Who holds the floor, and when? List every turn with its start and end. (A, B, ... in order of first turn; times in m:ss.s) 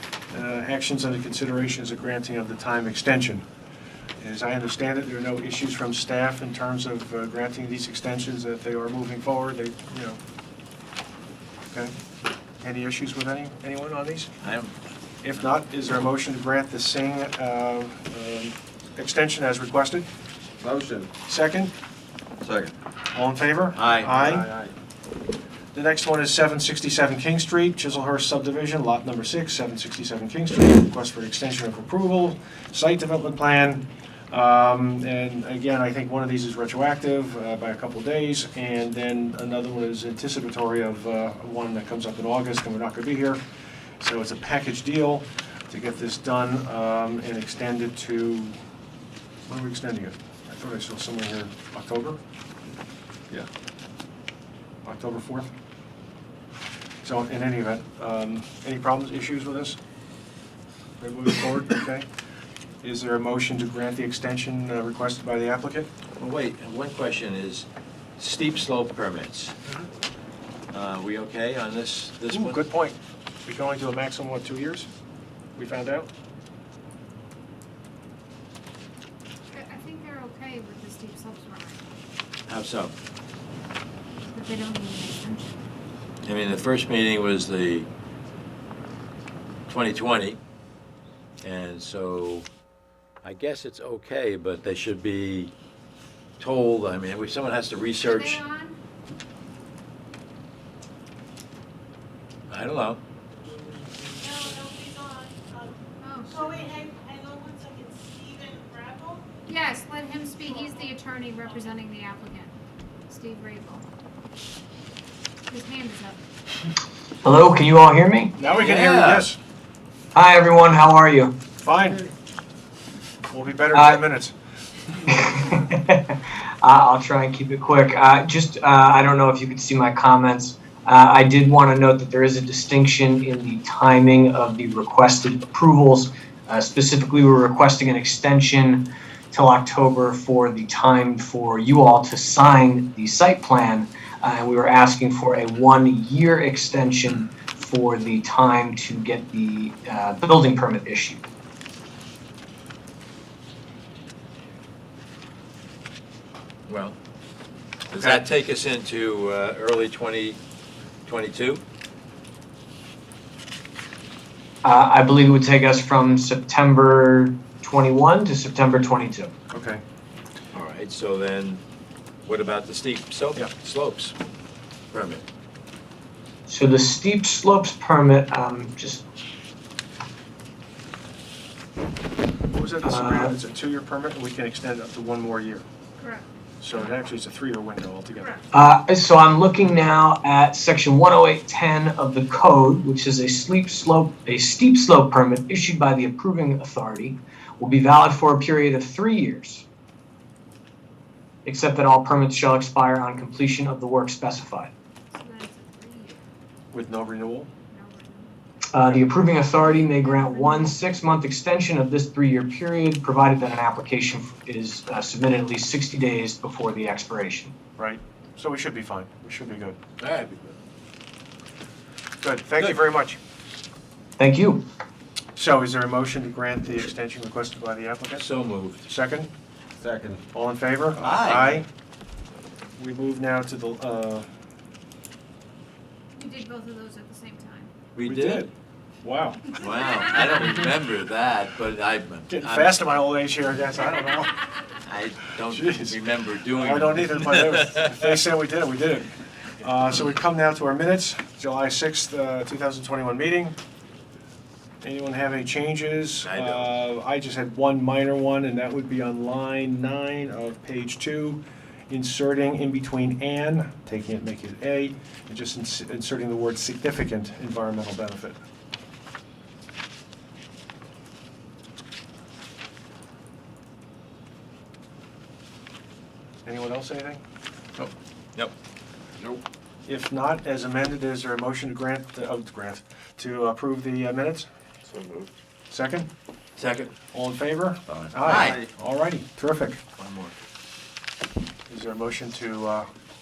0:00.3-0:03.4 A
0:04.2-0:10.2 A
0:12.6-0:14.3 A
0:14.4-0:14.7 B
0:15.2-0:20.0 A
0:20.6-0:21.1 C
0:21.2-0:21.7 A
0:22.4-0:22.7 C
0:23.1-0:24.5 A
0:23.7-0:24.3 B
0:24.2-0:24.7 C
0:25.7-0:43.4 A
0:44.0-0:48.5 A
0:49.4-0:52.2 A
0:54.8-0:55.5 A
0:57.0-0:59.8 A
1:01.0-1:02.1 A
1:02.8-1:05.9 A
1:06.2-1:07.7 B
1:08.2-1:09.5 B
1:10.7-1:12.6 B
1:12.3-1:14.9 A
1:15.6-1:16.1 A
1:19.5-1:21.8 D
1:22.5-1:22.9 B
1:24.2-1:25.6 D
1:26.2-1:27.9 B
1:29.7-1:30.4 B
1:31.4-1:32.5 B
1:33.2-1:35.5 B
1:36.4-1:38.4 B
1:38.0-1:38.8 D
1:42.5-1:43.0 B
1:44.2-1:45.8 E
1:46.0-1:46.7 D
1:46.4-1:49.3 E
1:49.4-1:52.6 D
1:53.1-1:53.8 D
1:55.5-1:56.2 D
1:57.2-1:58.3 F
1:58.4-1:59.4 A
1:58.5-1:59.3 B
2:00.1-2:01.4 F
2:01.6-2:02.1 A
2:03.3-2:04.3 A
2:03.7-2:04.0 F
2:05.1-2:31.2 F
2:36.7-2:37.0 B
2:37.9-2:40.4 B
2:37.9-2:38.2 A
2:41.0-2:41.6 B
2:44.6-2:49.3 F
2:49.5-2:49.8 A
2:50.5-2:51.6 B
2:52.2-2:54.1 B
2:54.9-2:55.2 B
2:56.5-2:59.0 F
3:02.5-3:05.6 A
3:02.8-3:03.3 F
3:06.0-3:06.2 D
3:06.6-3:08.4 A
3:08.5-3:19.6 F
3:21.4-3:24.7 F
3:25.1-3:26.3 D
3:26.7-3:27.5 A
3:27.7-3:28.4 D
3:28.7-3:37.6 F
3:29.5-3:30.8 D
3:37.8-3:39.8 A
3:40.0-3:40.6 B
3:42.2-3:43.2 A
3:44.2-3:44.6 F
3:45.4-3:48.2 A
3:48.2-3:48.8 B
3:48.8-3:49.3 A
3:49.8-3:50.2 C
3:50.3-3:51.6 A
3:51.0-3:51.6 B
3:52.8-3:54.2 A
3:56.1-3:57.7 D
3:57.9-3:58.5 B
3:58.0-3:58.5 A
3:59.0-3:59.4 A
3:59.6-4:02.8 B
3:59.6-4:00.7 D
4:02.3-4:04.4 A
4:04.8-4:08.2 B
4:05.5-4:06.0 A
4:06.5-4:13.6 A
4:14.8-4:28.4 A
4:16.2-4:16.7 B
4:36.4-4:37.2 A
4:37.8-4:38.5 B
4:39.8-4:44.5 A
4:44.9-4:45.3 C
4:45.7-4:46.1 A
4:46.6-4:46.9 B
4:47.1-4:49.8 A
4:47.9-4:48.6 B
4:50.0-4:50.4 B
4:51.7-4:52.9 A